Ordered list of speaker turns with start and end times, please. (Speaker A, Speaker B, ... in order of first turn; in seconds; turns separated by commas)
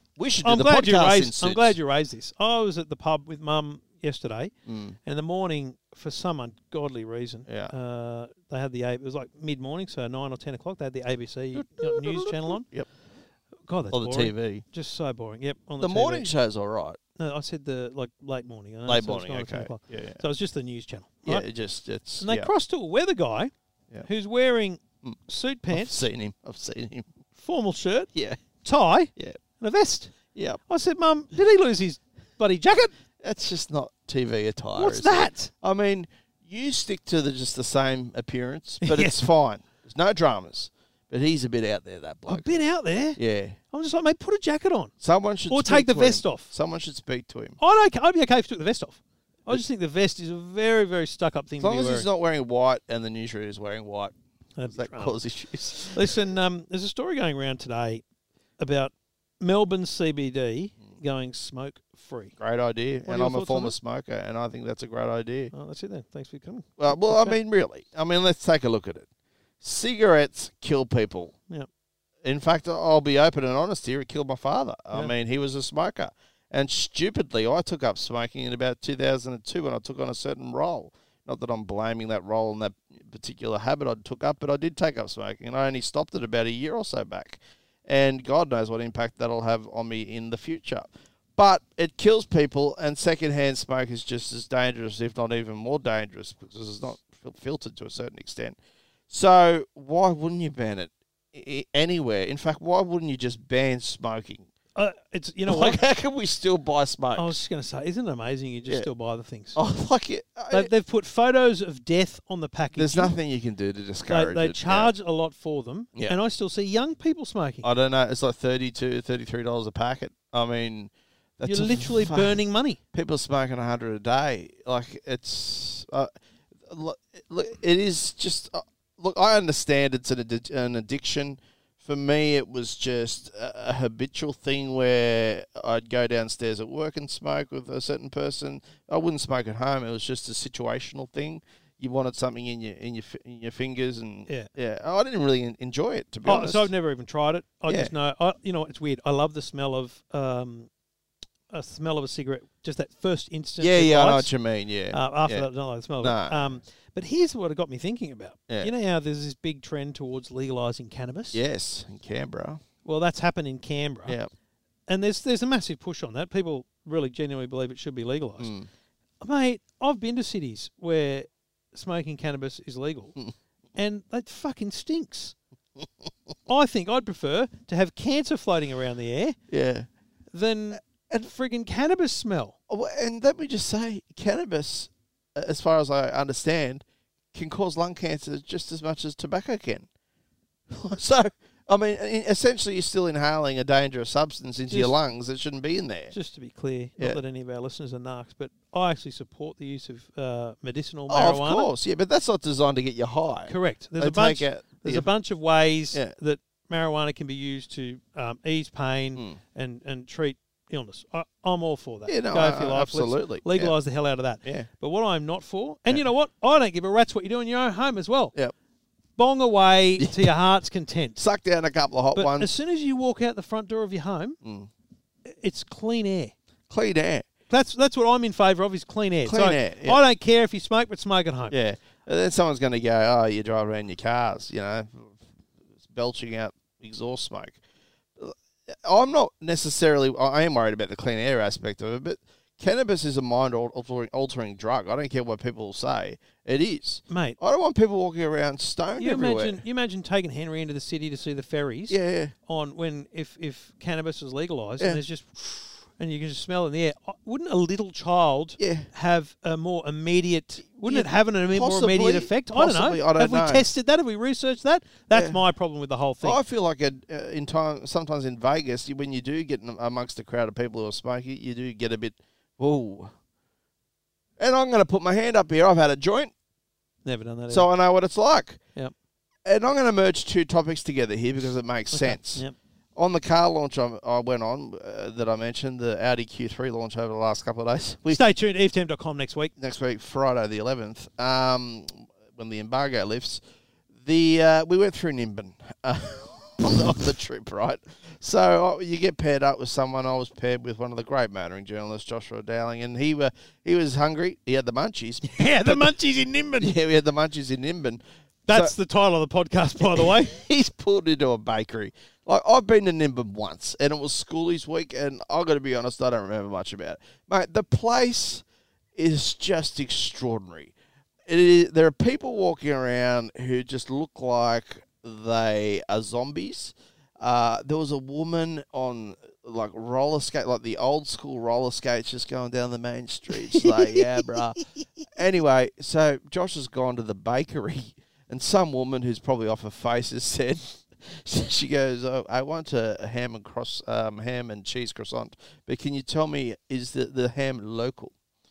Speaker A: 0.2-1.8, Speaker B: 0.4-4.5, Speaker A: 4.7-5.0, Speaker B: 5.0-12.7, Speaker A: 7.5-7.7, Speaker A: 11.5-12.9, Speaker B: 13.7-16.3, Speaker A: 13.9-14.6, Speaker A: 15.8-17.0, Speaker B: 17.2-21.5, Speaker A: 18.9-20.2, Speaker A: 21.2-22.5, Speaker B: 22.2-23.5, Speaker B: 24.0-26.1, Speaker A: 25.0-27.1, Speaker B: 27.4-28.1, Speaker A: 28.1-28.4, Speaker B: 28.6-30.1, Speaker A: 30.3-30.6, Speaker B: 30.7-32.9, Speaker A: 33.2-42.6, Speaker B: 34.8-35.5, Speaker B: 38.8-39.2, Speaker B: 42.3-43.2, Speaker A: 43.2-43.6, Speaker B: 43.7-44.9, Speaker A: 45.0-47.6, Speaker B: 45.5-46.5, Speaker B: 47.6-52.1, Speaker A: 51.6-54.1, Speaker B: 54.6-55.2, Speaker A: 54.7-56.2, Speaker B: 55.9-58.0, Speaker B: 58.6-62.4, Speaker A: 62.4-65.5, Speaker B: 63.1-63.8, Speaker B: 65.5-67.4, Speaker A: 66.8-69.1, Speaker A: 69.6-71.4, Speaker A: 72.2-98.6, Speaker A: 99.1-104.5, Speaker B: 104.8-105.8, Speaker A: 105.5-107.4, Speaker B: 107.2-109.6, Speaker A: 109.5-110.7, Speaker B: 110.5-113.1, Speaker A: 112.8-114.9, Speaker B: 114.1-117.7, Speaker A: 117.6-122.4, Speaker B: 121.4-122.8, Speaker A: 122.9-126.1, Speaker A: 126.7-146.7, Speaker B: 146.2-150.7, Speaker A: 147.7-147.9, Speaker B: 151.5-154.3, Speaker A: 153.6-156.6, Speaker B: 154.9-161.4, Speaker A: 161.3-162.6, Speaker B: 162.8-164.2, Speaker B: 164.9-168.5, Speaker A: 168.4-168.7, Speaker B: 169.2-173.2, Speaker B: 173.8-175.3, Speaker B: 176.5-179.4, Speaker A: 179.5-179.9, Speaker B: 180.3-182.6, Speaker A: 180.7-181.3, Speaker A: 182.7-189.9, Speaker A: 190.7-196.1, Speaker B: 194.7-195.0, Speaker B: 196.1-201.7, Speaker A: 201.1-205.1, Speaker B: 203.5-218.3, Speaker A: 212.1-213.8, Speaker A: 214.4-214.7, Speaker B: 219.2-221.2, Speaker A: 220.0-220.3, Speaker A: 221.2-222.5, Speaker B: 222.2-224.4, Speaker A: 224.4-224.7, Speaker B: 225.3-226.3, Speaker A: 226.7-227.3, Speaker B: 227.5-231.6, Speaker A: 229.3-230.0, Speaker A: 231.5-235.2, Speaker A: 235.8-237.6, Speaker A: 238.2-249.6, Speaker B: 247.1-247.4, Speaker B: 249.0-266.4, Speaker A: 251.9-252.3, Speaker A: 258.6-258.9, Speaker A: 260.8-263.7, Speaker A: 265.1-265.4, Speaker A: 266.2-273.1, Speaker A: 274.4-276.3, Speaker B: 277.1-277.7, Speaker A: 277.5-278.6, Speaker A: 279.4-282.4, Speaker B: 281.9-282.6, Speaker A: 283.0-288.2, Speaker B: 288.1-289.5, Speaker A: 289.6-293.4, Speaker A: 294.0-305.9, Speaker B: 305.2-306.7, Speaker A: 306.6-308.8, Speaker B: 308.5-310.4, Speaker A: 309.9-318.4, Speaker A: 318.9-320.7, Speaker A: 321.3-334.6, Speaker B: 333.5-334.2, Speaker A: 335.1-348.1